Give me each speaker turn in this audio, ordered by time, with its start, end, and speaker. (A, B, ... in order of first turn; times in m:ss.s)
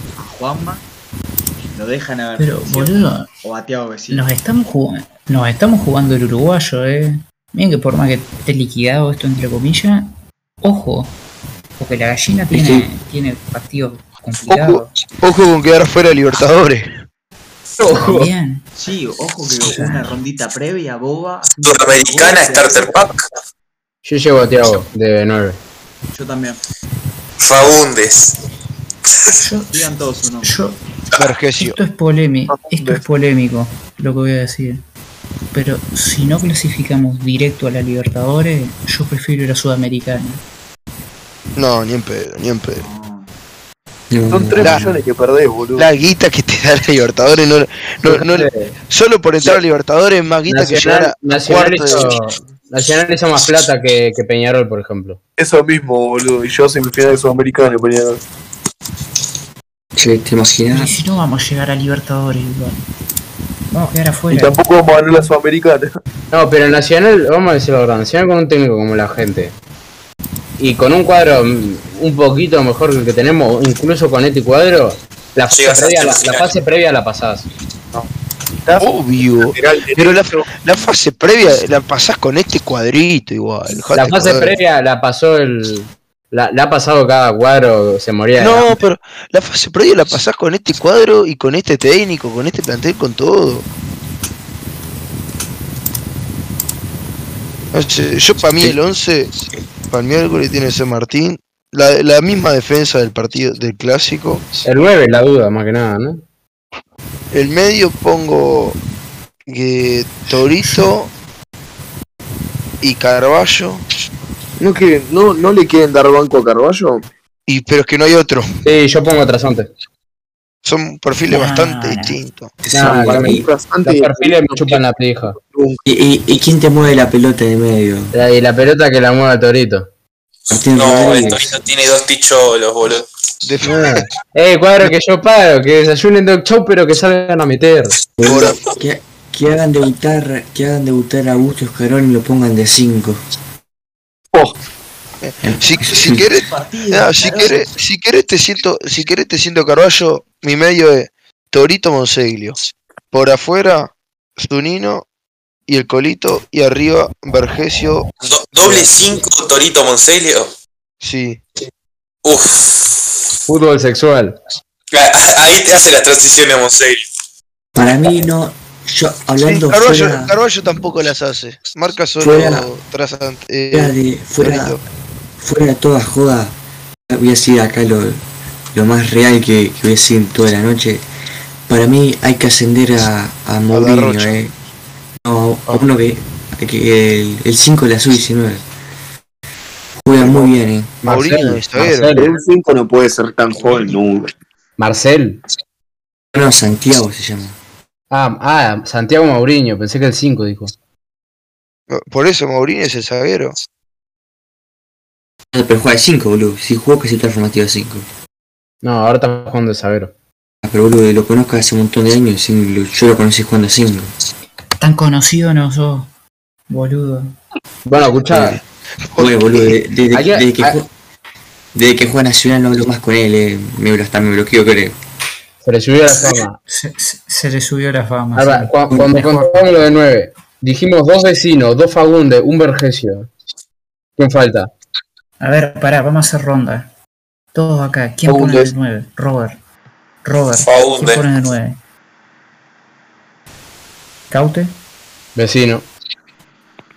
0:00.2-0:00.8 A
0:01.7-0:04.3 A
0:02.4-0:03.3 B
0:04.1-0:11.2 B
0:11.8-0:14.9 B
0:12.5-0:12.9 C
0:14.5-0:16.9 D
0:17.8-0:18.3 E
0:17.9-0:18.7 B
0:18.8-0:22.9 A
0:19.6-0:20.1 B
0:21.6-0:23.3 F
0:24.0-0:25.6 E
0:26.1-0:26.6 A
0:27.4-0:28.4 F
0:29.4-0:29.9 B
0:29.7-0:30.6 A
0:30.4-0:30.8 B
0:31.2-0:31.8 D
0:31.6-0:34.8 B
0:35.5-0:40.4 B
0:41.6-0:42.8 D
0:42.7-0:43.3 A
0:44.1-0:45.0 C
0:44.3-0:45.9 G
0:44.6-0:45.0 D
0:45.8-0:52.2 D
0:48.0-0:48.8 E
0:50.5-0:55.2 E
0:55.4-0:58.2 G
1:00.0-1:00.9 C
1:00.7-1:02.8 B
1:03.7-1:04.6 B
1:04.3-1:06.0 G
1:06.3-1:09.6 E
1:10.6-1:17.5 E
1:15.5-1:16.6 F
1:18.8-1:24.5 D
1:19.4-1:20.5 G
1:24.0-1:28.8 E
1:28.4-1:33.7 D
1:37.7-1:39.3 D
1:39.9-1:44.5 D
1:44.6-1:46.2 E
1:47.3-1:48.8 D
1:49.5-1:51.1 D
1:52.8-1:53.8 D
1:54.6-1:57.0 G
1:57.5-1:58.5 D
1:58.6-1:59.7 E
2:00.6-2:02.6 D
2:01.3-2:02.2 B
2:02.6-2:03.5 C
2:02.7-2:05.4 E
2:02.7-2:04.8 G
2:05.4-2:05.8 G
2:05.9-2:08.1 C
2:08.1-2:09.9 E
2:10.5-2:11.6 C
2:10.5-2:13.1 F
2:13.4-2:13.9 D
2:13.7-2:18.0 E
2:18.2-2:23.2 C
2:18.2-2:18.6 D
2:18.4-2:18.8 F
2:25.2-2:32.6 D
2:25.4-2:26.3 C
2:26.1-2:27.7 A
2:33.1-2:35.1 D
2:35.7-2:38.1 D
2:38.2-2:40.5 F
2:38.6-2:38.9 E
2:41.0-2:41.4 D
2:42.2-2:43.0 F
2:43.5-2:44.4 E
2:44.9-2:47.1 F
2:47.8-2:50.3 C
2:49.4-2:54.8 D
2:52.2-2:52.7 C
2:53.7-2:54.8 C
2:55.4-2:56.6 C
2:57.1-2:58.2 C
2:58.7-3:01.0 C
3:01.7-3:04.5 C
3:03.7-3:04.4 D
3:05.2-3:08.6 C
3:10.0-3:11.0 C
3:10.2-3:10.5 D
3:11.0-3:12.3 E
3:11.0-3:12.3 D
3:12.2-3:14.3 G
3:14.8-3:15.4 E
3:16.3-3:17.6 C
3:18.1-3:20.7 E
3:21.9-3:23.6 D
3:25.5-3:28.1 C
3:28.8-3:30.1 E
3:30.6-3:34.1 C
3:34.8-3:36.1 B
3:36.7-3:37.4 B
3:37.9-3:38.6 E
3:38.3-3:38.6 C
3:39.1-3:39.7 D
3:39.2-3:40.9 C
3:40.1-3:40.8 E
3:41.7-3:45.0 C
3:45.6-3:46.6 E
3:46.7-3:48.8 B
3:48.4-3:53.3 E
3:48.9-3:49.7 C
3:54.2-3:54.7 E
3:55.4-3:56.9 B
3:57.5-3:59.6 B
3:58.3-3:58.7 G
4:00.2-4:01.8 B
4:00.6-4:01.2 F
4:04.3-4:04.8 B
4:05.4-4:05.9 E